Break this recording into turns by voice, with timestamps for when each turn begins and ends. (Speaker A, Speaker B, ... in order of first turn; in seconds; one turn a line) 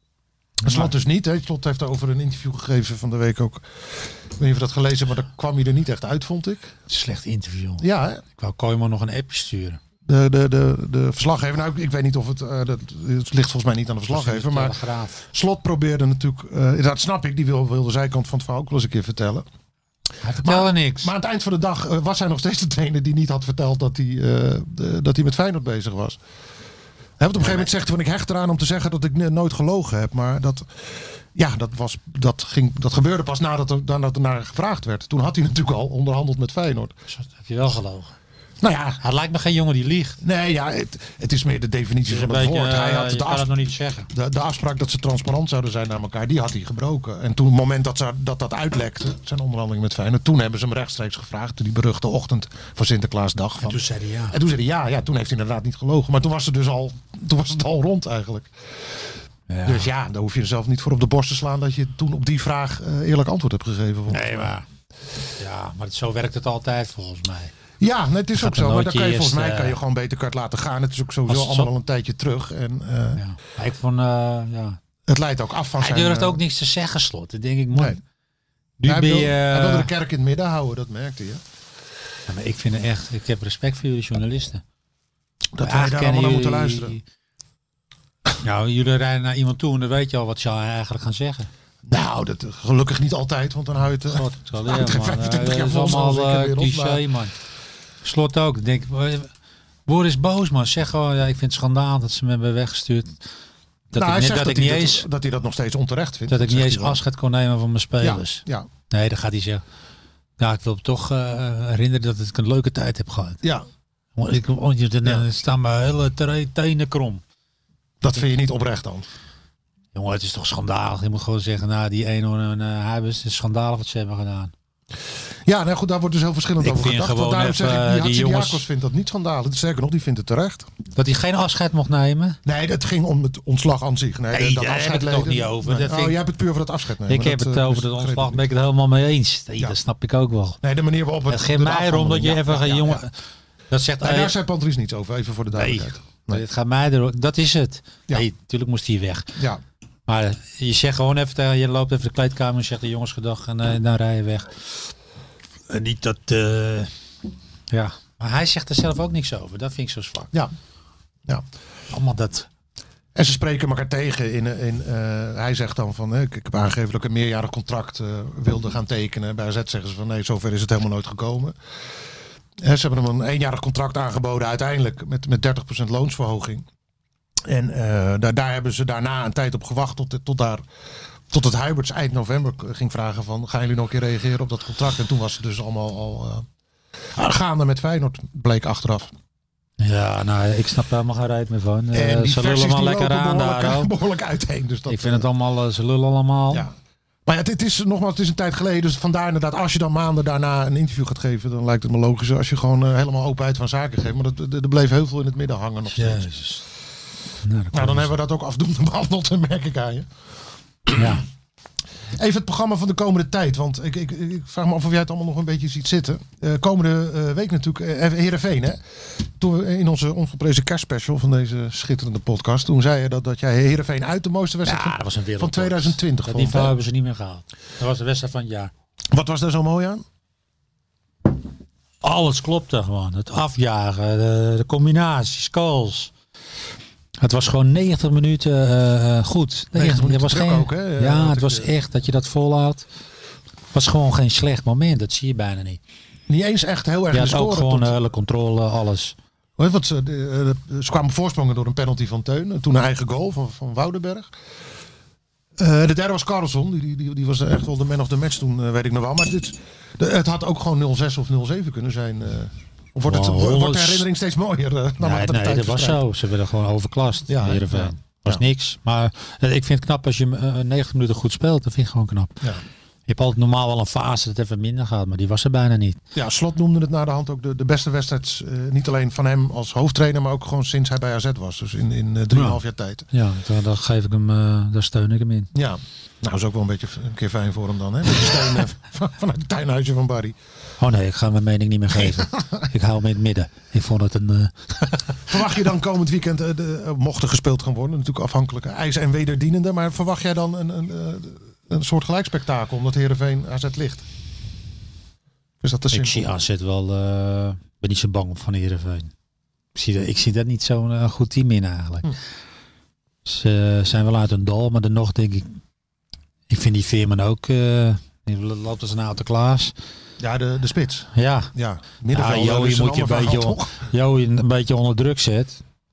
Speaker A: 0.6-0.9
Speaker B: 0.6-6.7
Speaker A: 6.9-9.8
Speaker B: 7.8-8.2
Speaker B: 10.1-19.4
Speaker A: 14.1-15.2
Speaker A: 20.2-21.1
Speaker B: 20.4-26.2
Speaker B: 27.2-36.9
Speaker A: 37.1-38.1
Speaker B: 38.6-39.0
Speaker A: 39.0-40.2
Speaker B: 40.2-43.5
Speaker A: 42.1-44.1
Speaker B: 44.1-59.1
Speaker A: 53.6-54.4
Speaker A: 59.5-59.9
Speaker B: 59.6-64.5
Speaker A: 64.1-64.7
Speaker A: 65.4-67.5
Speaker B: 67.8-73.2
Speaker A: 68.3-69.8
Speaker A: 71.3-71.7
Speaker A: 73.2-74.8
Speaker B: 75.1-76.4
Speaker A: 75.8-78.0
Speaker B: 77.7-78.0
Speaker A: 78.8-79.9
Speaker B: 78.8-81.4
Speaker A: 82.3-84.6
Speaker B: 85.5-87.0
Speaker A: 85.6-87.0
Speaker A: 88.4-91.5
Speaker B: 91.8-97.0
Speaker A: 94.1-97.3
Speaker A: 98.0-99.3
Speaker A: 99.9-103.2
Speaker A: 103.9-105.0
Speaker B: 103.9-107.0
Speaker A: 106.3-109.6
Speaker B: 108.0-108.7
Speaker A: 110.4-113.4
Speaker B: 113.4-113.7
Speaker A: 114.2-117.2
Speaker B: 118.0-119.1
Speaker A: 119.9-124.5
Speaker B: 125.4-130.7
Speaker A: 126.6-128.6
Speaker A: 130.9-132.4
Speaker B: 132.4-138.4
Speaker A: 134.3-136.2
Speaker A: 137.1-140.6
Speaker B: 140.6-143.0
Speaker A: 141.3-143.1
Speaker A: 143.7-144.3
Speaker B: 144.0-146.4
Speaker A: 145.5-149.3
Speaker A: 150.1-154.7
Speaker A: 155.7-156.9
Speaker A: 157.7-160.3
Speaker A: 161.9-162.5
Speaker B: 163.1-171.6
Speaker B: 172.6-176.7
Speaker B: 177.4-180.6
Speaker B: 181.3-186.4
Speaker B: 187.1-189.1
Speaker A: 189.8-193.9
Speaker B: 191.9-195.3
Speaker A: 194.9-196.6
Speaker B: 197.2-206.3
Speaker A: 205.9-206.6
Speaker A: 207.4-208.1
Speaker B: 207.7-210.1
Speaker A: 210.9-211.2
Speaker B: 212.1-226.8
Speaker A: 224.6-228.7
Speaker B: 229.1-230.0
Speaker A: 232.0-236.1
Speaker A: 237.2-242.8
Speaker B: 239.7-241.7
Speaker A: 243.7-245.8
Speaker B: 246.3-247.9
Speaker A: 247.1-249.1
Speaker B: 249.6-254.3
Speaker B: 255.6-266.0
Speaker A: 263.1-264.1
Speaker A: 265.0-272.4
Speaker B: 267.3-268.4
Speaker A: 273.1-276.0
Speaker B: 276.1-283.1
Speaker A: 282.3-285.5
Speaker B: 285.5-290.3
Speaker A: 290.8-295.3
Speaker B: 292.0-292.6
Speaker B: 295.3-304.0
Speaker B: 305.6-306.3
Speaker A: 305.9-309.1
Speaker A: 309.7-312.2
Speaker A: 313.2-315.5
Speaker A: 316.5-319.7
Speaker B: 320.2-323.8
Speaker A: 321.1-321.5
Speaker A: 322.1-325.6